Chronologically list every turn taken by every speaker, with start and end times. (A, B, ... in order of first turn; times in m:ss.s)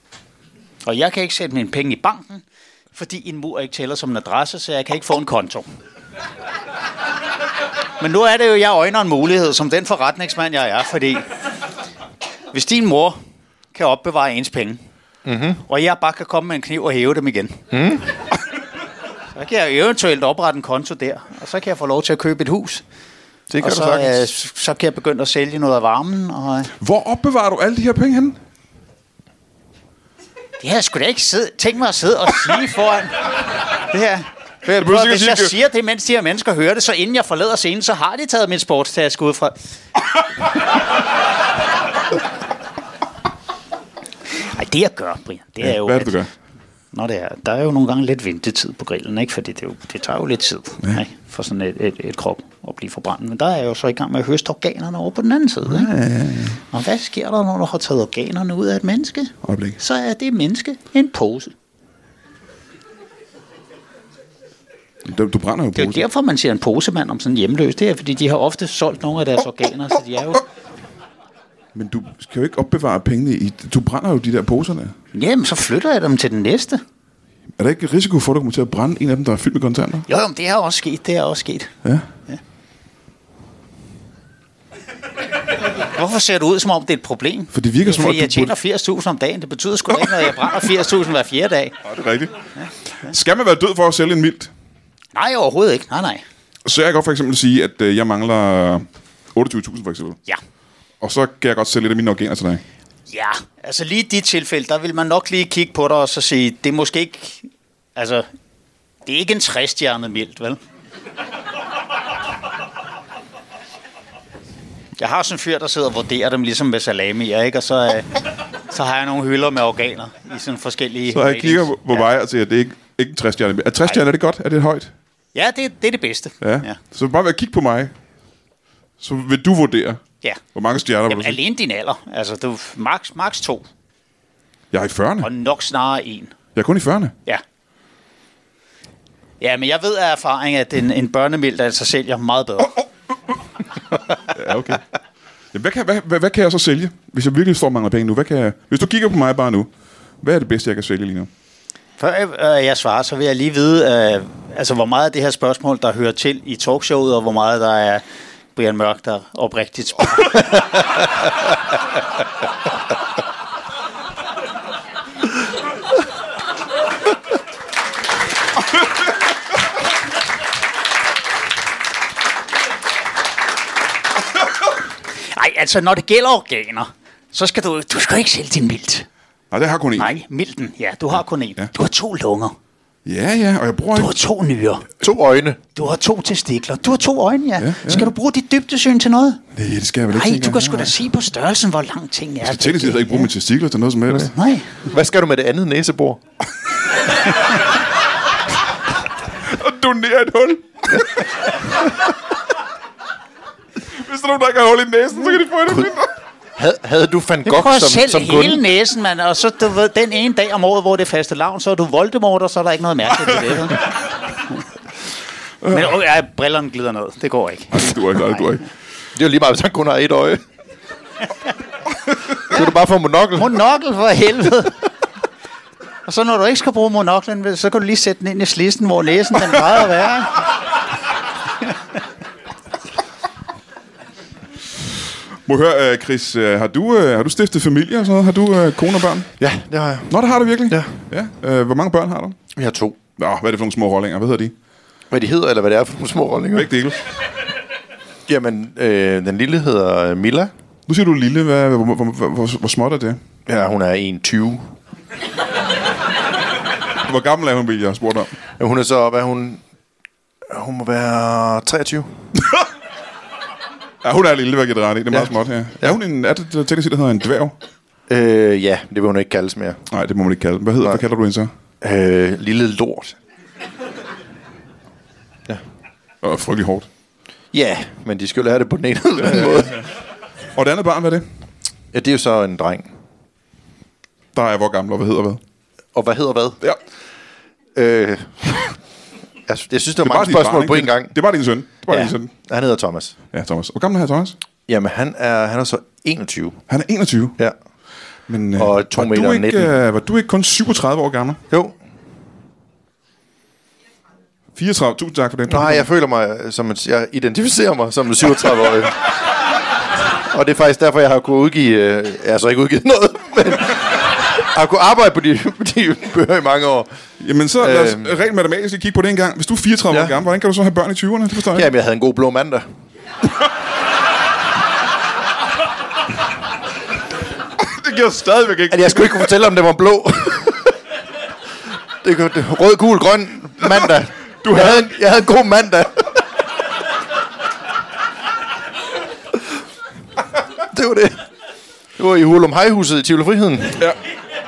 0:00.8-0:05.7 A
0:08.0-0:11.3 A
0:12.5-0:13.2 A
0:13.7-0:14.8 A
0:15.2-0:15.6 B
0:15.6-0:17.6 A
0:17.7-0:18.1 B
0:19.3-0:22.8 A
0:23.5-0:24.2 B
0:23.6-0:26.7 A
0:26.8-0:28.4 C
0:30.6-0:39.6 A
0:34.6-0:35.5 C
0:44.4-0:46.2 A
0:45.6-0:46.3 C
0:46.9-0:55.9 A
0:55.6-0:56.6 C
0:56.7-1:01.5 A
0:59.4-0:59.8 C
1:05.0-1:06.0 C
1:05.8-1:10.4 A
1:11.8-1:14.9 C
1:15.1-1:16.8 A
1:17.6-1:20.1 C
1:20.1-1:21.7 A
1:25.8-1:31.8 A
1:27.5-1:28.6 C
1:31.8-1:32.4 C
1:33.0-1:34.5 C
1:35.1-1:36.2 A
1:36.6-1:40.2 C
1:41.0-1:42.6 C
1:43.1-1:48.3 A
1:49.0-1:50.6 A
1:55.0-1:58.1 A
1:58.7-2:02.1 A
2:01.1-2:04.9 C
2:05.4-2:06.8 A
2:06.4-2:07.9 C
2:09.0-2:10.0 C
2:10.5-2:11.4 C
2:11.1-2:13.7 A
2:14.7-2:15.3 C
2:15.2-2:16.3 A
2:16.6-2:17.1 C
2:19.4-2:22.8 A
2:24.3-2:24.8 C
2:25.5-2:29.7 C
2:30.2-2:31.3 C
2:32.0-2:38.0 A
2:38.6-2:40.8 A
2:55.2-2:59.1 A
2:59.5-3:00.1 C
3:00.0-3:02.6 A
3:03.1-3:04.1 C
3:03.9-3:04.9 A
3:05.0-3:05.6 B
3:05.8-3:09.4 A
3:07.6-3:08.1 C
3:09.5-3:10.9 C
3:10.1-3:13.3 A
3:12.4-3:14.3 C
3:14.2-3:14.8 A
3:14.8-3:16.2 B
3:19.4-3:21.3 C
3:23.9-3:26.1 C
3:26.6-3:28.6 B
3:27.5-3:33.9 A
3:35.6-3:35.9 C
3:35.7-3:38.4 A
3:37.7-3:38.6 C
3:39.1-3:40.4 B
3:42.4-3:43.6 B
3:43.4-3:44.8 A
3:46.0-3:50.5 A
3:55.5-3:59.3 C
3:59.4-4:00.2 B
4:00.1-4:02.4 C
4:00.7-4:01.0 B
4:02.6-4:03.0 B
4:03.2-4:04.5 C
4:05.1-4:06.7 B
4:06.6-4:07.0 C
4:08.3-4:10.5 B
4:10.9-4:13.2 C
4:13.5-4:14.7 B
4:17.0-4:18.3 C
4:18.6-4:19.6 B
4:20.5-4:22.3 B
4:24.0-4:27.6 C
4:28.1-4:29.8 B
4:29.9-4:31.5 C
4:31.8-4:33.2 B
4:36.2-4:36.9 C
4:37.5-4:39.8 B
4:40.5-4:41.2 C
4:41.9-4:42.9 B
4:44.4-4:45.4 C
4:45.9-4:46.6 B
4:47.8-4:48.8 B
4:49.5-4:51.2 B
4:50.0-4:52.3 C
4:51.9-4:53.2 B
4:53.3-4:54.4 C
4:54.7-4:56.6 B
4:56.7-4:57.4 C
4:58.3-5:01.4 C
4:58.6-4:59.7 B
5:04.6-5:05.9 C
5:05.5-5:08.9 B
5:10.3-5:16.9 B
5:17.2-5:21.7 C
5:17.6-5:18.2 B
5:21.5-5:22.6 B
5:27.6-5:29.4 C
5:28.7-5:30.7 B
5:32.0-5:36.4 B
5:34.4-5:34.8 C
5:40.6-5:41.3 B
5:42.0-5:43.9 B